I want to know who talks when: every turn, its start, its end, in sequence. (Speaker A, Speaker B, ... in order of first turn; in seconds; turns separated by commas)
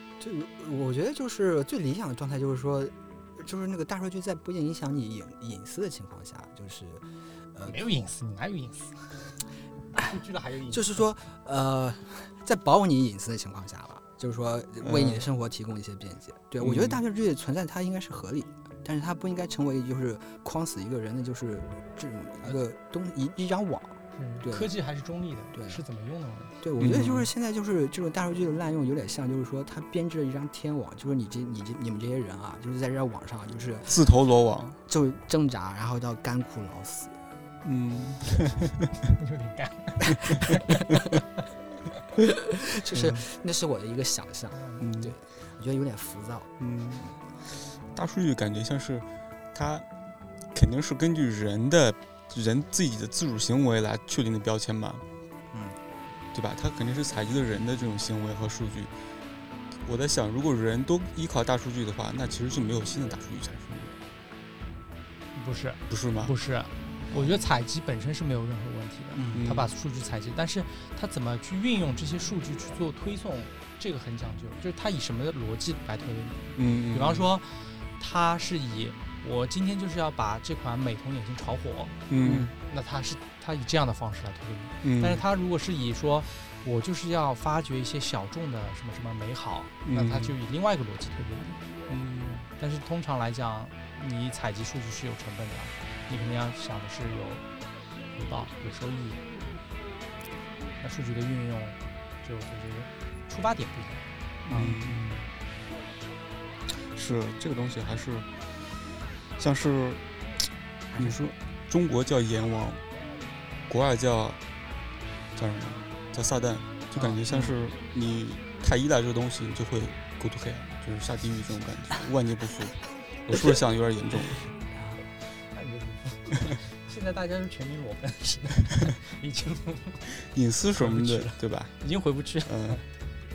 Speaker A: 0.2-7.8, Speaker B: 7.7-9.4, Speaker B: 10.0-11.0, Speaker A: 10.7-24.7, Speaker C: 14.8-15.2, Speaker C: 16.6-17.0, Speaker B: 24.1-26.5, Speaker A: 25.5-25.8, Speaker A: 26.6-34.0, Speaker C: 26.8-27.3, Speaker C: 33.9-34.8, Speaker A: 34.9-37.1, Speaker C: 37.6-38.7, Speaker B: 39.2-40.7, Speaker A: 42.8-46.5, Speaker C: 42.9-43.2, Speaker B: 44.5-44.9, Speaker C: 44.8-45.1, Speaker C: 46.6-47.2, Speaker C: 47.9-49.9, Speaker C: 50.5-55.0, Speaker A: 55.5-55.8, Speaker C: 56.3-58.9, Speaker C: 59.8-64.0, Speaker B: 65.3-81.9, Speaker C: 65.9-66.3, Speaker A: 69.1-69.5, Speaker C: 69.3-69.7, Speaker C: 76.5-77.3, Speaker C: 82.1-82.5, Speaker A: 82.2-82.5, Speaker B: 82.6-91.7, Speaker C: 84.8-85.2, Speaker C: 89.8-90.3, Speaker C: 91.9-92.5, Speaker B: 92.6-97.4, Speaker B: 98.1-99.2, Speaker B: 100.8-105.3, Speaker C: 104.4-105.0, Speaker C: 106.7-108.3, Speaker C: 109.4-110.0, Speaker C: 111.0-112.8, Speaker C: 113.7-114.4, Speaker C: 115.3-124.4, Speaker B: 116.9-117.2, Speaker A: 117.3-117.5, Speaker A: 124.7-125.0, Speaker B: 125.4-130.1, Speaker C: 130.3-131.7, Speaker B: 130.8-132.8, Speaker C: 132.4-132.8